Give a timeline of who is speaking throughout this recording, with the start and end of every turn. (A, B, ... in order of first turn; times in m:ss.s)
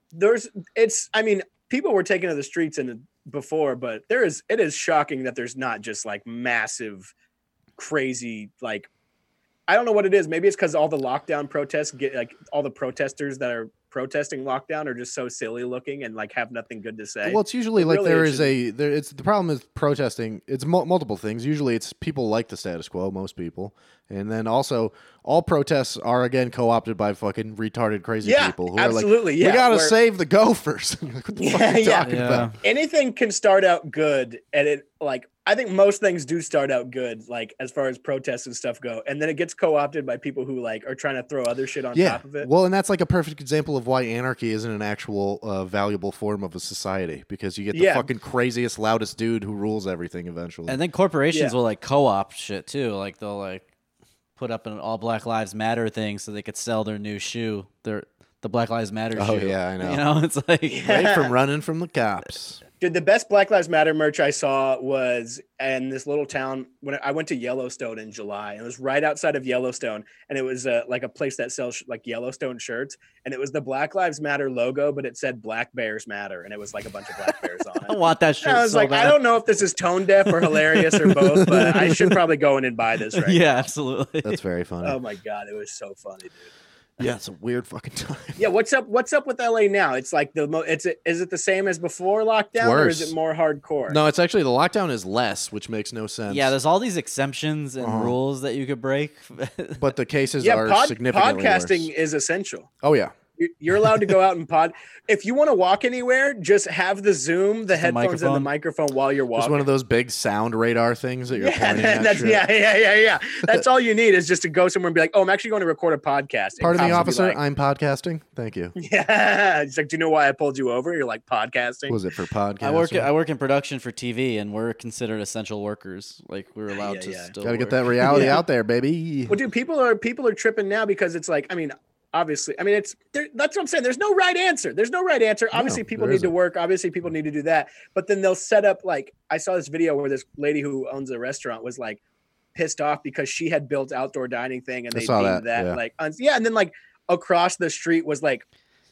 0:00.1-0:07.1 A
0:07.8-0:08.9 A
0:09.7-0:18.5 A
0:17.2-0:32.5 B
0:28.2-0:30.0 A
0:31.4-0:42.5 A
0:32.0-0:32.6 C
0:41.9-0:50.8 B
0:47.7-0:48.1 A
0:50.7-0:53.6 C
0:54.4-1:01.0 C
0:59.1-1:00.0 B
1:00.7-1:01.3 A
1:00.8-1:02.6 B
1:02.8-1:23.6 A
1:17.8-1:19.2 C
1:20.5-1:21.9 C
1:21.3-1:22.1 B
1:23.2-1:24.4 C
1:24.2-1:25.0 B
1:24.8-1:26.5 A
1:27.0-1:28.4 B
1:28.4-1:34.0 A
1:32.6-1:33.1 B
1:33.9-1:36.5 B
1:36.3-1:39.8 C
1:37.8-1:38.1 B
1:39.8-1:41.9 B
1:40.4-1:42.7 A
1:42.8-1:43.1 B
1:43.4-1:49.6 A
1:47.7-1:48.5 C
1:49.3-1:52.4 B
1:51.3-1:57.4 A
1:56.6-1:58.7 B
1:58.8-2:02.0 A
2:01.9-2:03.1 B
2:02.6-2:08.4 C
2:06.7-2:07.3 A
2:07.4-2:09.4 B
2:08.0-2:08.4 A
2:09.3-2:22.0 A
2:15.5-2:16.3 B
2:22.5-2:28.4 A
2:24.9-2:25.8 B